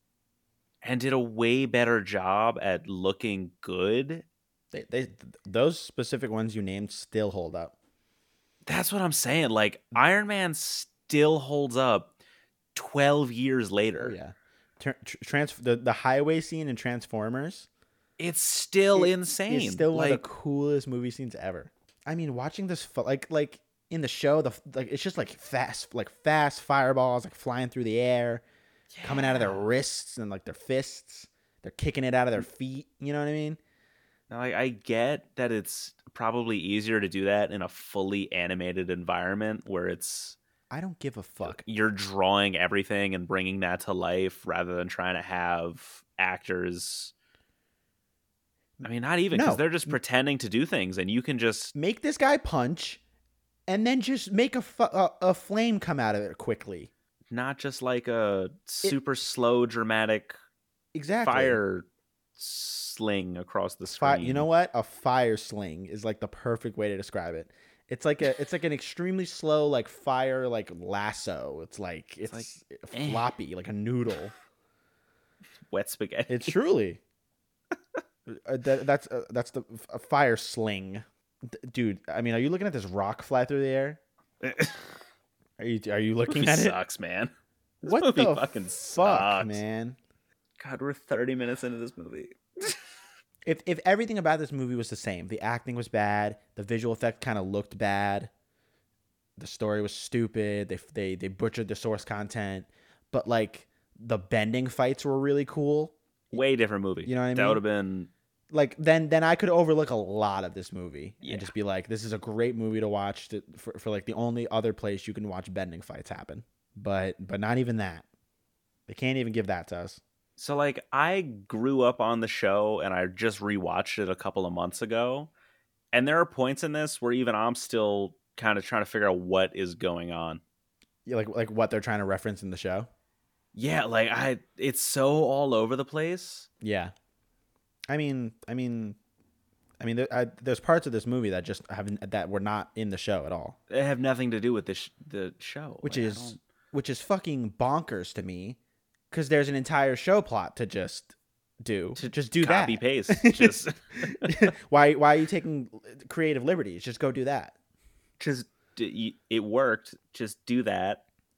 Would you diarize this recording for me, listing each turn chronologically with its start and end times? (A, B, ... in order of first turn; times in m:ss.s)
0:00.8-0:04.2 A
0:04.7-0:07.7 B
0:08.6-0:12.1 A
0:12.7-0:14.2 A
0:14.0-0:17.7 B
0:18.2-0:20.2 A
0:18.9-0:28.4 B
0:28.9-0:29.6 A
0:29.0-0:33.6 B
0:34.3-0:40.4 A
0:40.7-0:41.6 B
0:41.4-0:47.1 A
0:48.8-0:50.0 B
0:48.8-0:51.7 A
0:51.7-0:53.0 B
0:53.7-0:56.9 B
0:57.3-1:00.3 A
1:00.9-1:01.6 B
1:01.2-1:04.5 A
1:03.9-1:14.3 B
1:12.3-1:13.3 A
1:15.7-1:16.6 A
1:16.3-1:17.0 B
1:18.3-1:24.0 B
1:24.4-1:24.9 A
1:25.6-1:26.8 B
1:26.3-1:29.6 A
1:27.8-1:30.0 B
1:30.6-1:32.9 A
1:33.4-1:38.3 B
1:39.4-1:46.4 B
1:46.3-1:48.1 A
1:47.0-1:47.6 B
1:48.5-1:58.0 B
1:51.2-1:51.5 A
1:58.9-2:00.0 B
2:00.4-2:05.3 A
2:05.9-2:10.4 A
2:11.0-2:12.9 B
2:13.5-2:16.5 A
2:16.6-2:16.9 B
2:17.9-2:19.0 B
2:19.8-2:23.6 B
2:23.7-2:26.4 A
2:25.8-2:28.6 B
2:29.1-2:37.6 B
2:32.0-2:34.5 A
2:38.2-2:41.0 A